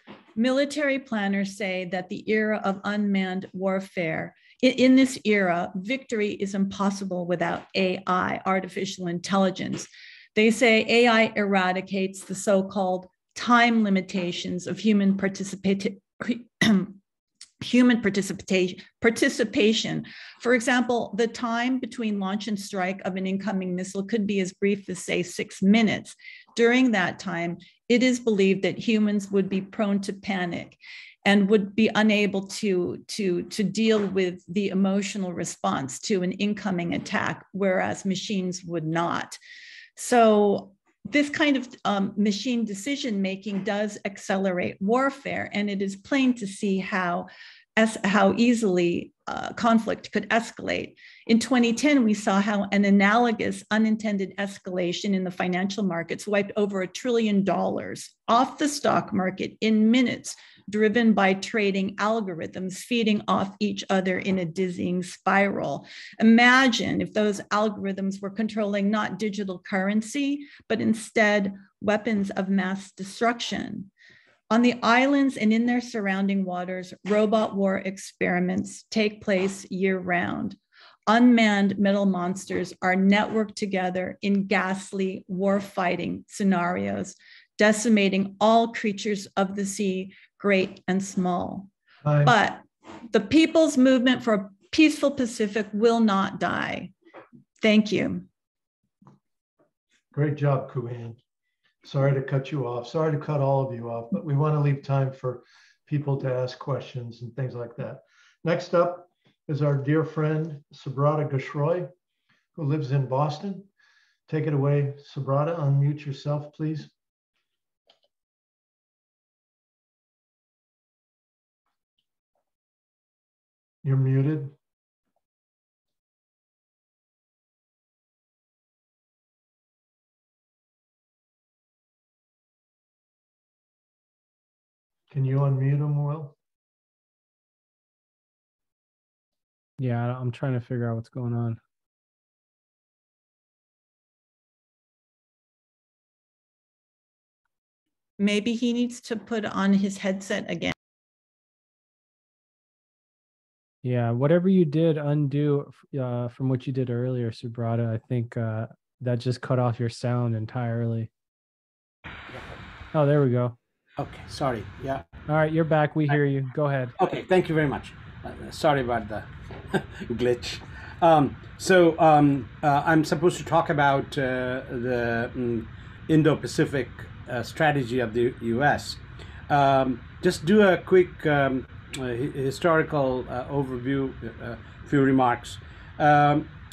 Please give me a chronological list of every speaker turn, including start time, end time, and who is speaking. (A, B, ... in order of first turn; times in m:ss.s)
0:00.4-0:17.0 A
0:17.6-0:39.4 A
0:40.0-1:13.9 A
1:14.5-1:31.7 A
1:32.0-1:32.3 B
1:32.2-1:36.9 A
1:37.6-1:38.3 A
1:40.1-1:41.2 B
1:41.8-1:51.9 B
1:52.5-1:53.7 B
1:54.3-1:56.9 B
2:03.8-2:04.5 B
2:15.1-2:16.3 B
2:19.8-2:21.6 C
2:28.2-2:30.7 A
2:33.8-2:41.1 C
2:42.9-2:43.6 C
2:44.0-2:45.0 D
2:45.3-2:46.9 C
2:47.0-3:06.5 D